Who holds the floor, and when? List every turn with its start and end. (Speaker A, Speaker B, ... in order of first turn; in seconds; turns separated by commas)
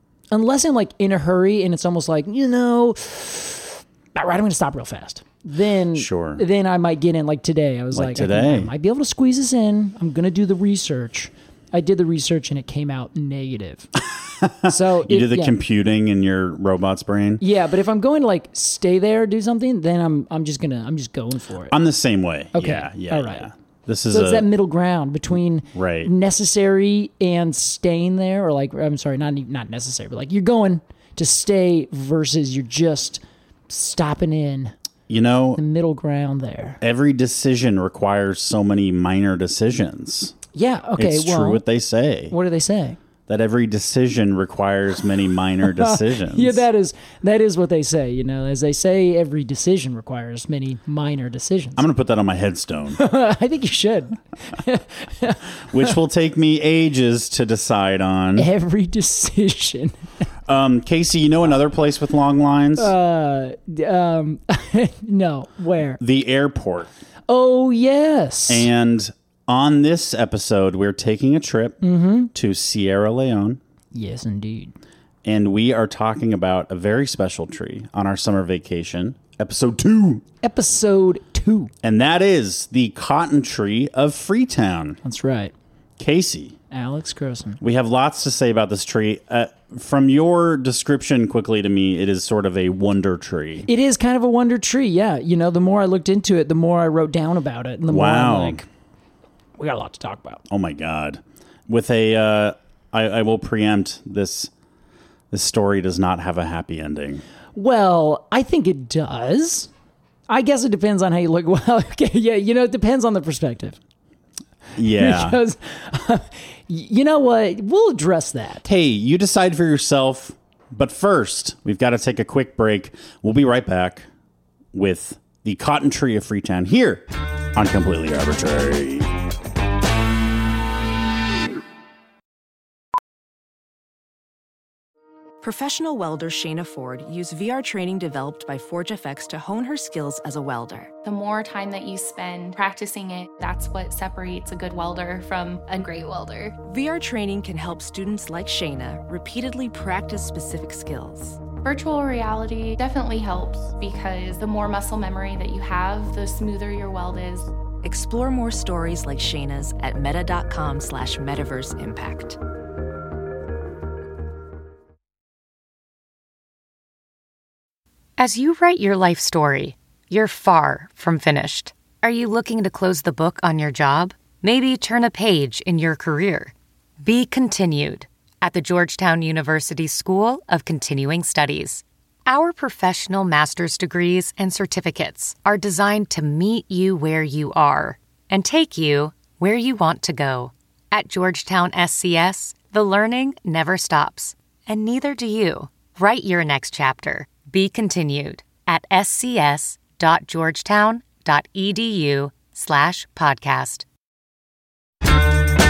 Speaker A: 0.3-13.9, Speaker B: 5.9-6.4, Speaker B: 7.9-8.7, Speaker B: 14.4-17.4, Speaker A: 14.7-15.6, Speaker A: 17.4-21.8, Speaker B: 21.7-24.4, Speaker A: 22.5-23.5, Speaker A: 24.1-34.7, Speaker B: 25.7-26.1, Speaker B: 35.1-35.6, Speaker A: 35.5-36.8, Speaker B: 36.8-40.3, Speaker A: 40.5-41.6, Speaker B: 41.0-42.3, Speaker A: 42.3-43.0, Speaker B: 43.3-46.6, Speaker A: 45.6-51.8, Speaker B: 51.8-53.0, Speaker A: 53.0-55.9, Speaker B: 55.7-58.5, Speaker A: 58.4-59.9, Speaker B: 60.5-62.9, Speaker A: 62.8-66.0, Speaker B: 66.0-66.9, Speaker A: 67.3-68.7, Speaker B: 68.5-71.8, Speaker A: 71.8-72.3, Speaker B: 72.3-73.6, Speaker A: 73.9-74.7, Speaker B: 75.2-80.2, Speaker A: 80.4-81.7, Speaker B: 81.8-85.0, Speaker A: 85.0-85.5, Speaker B: 86.0-86.6, Speaker A: 86.7-87.6, Speaker B: 87.6-93.7, Speaker A: 93.7-98.7, Speaker B: 97.9-98.6, Speaker A: 99.6-100.4, Speaker B: 100.5-104.5, Speaker B: 105.3-107.2, Speaker A: 107.5-109.7, Speaker A: 110.3-113.8, Speaker B: 114.8-115.4, Speaker A: 114.9-118.6, Speaker B: 118.6-124.1, Speaker B: 124.7-129.1, Speaker C: 135.4-140.9, Speaker D: 141.0-146.6, Speaker C: 146.6-151.4, Speaker D: 151.5-157.5, Speaker C: 157.8-162.4, Speaker E: 168.2-203.8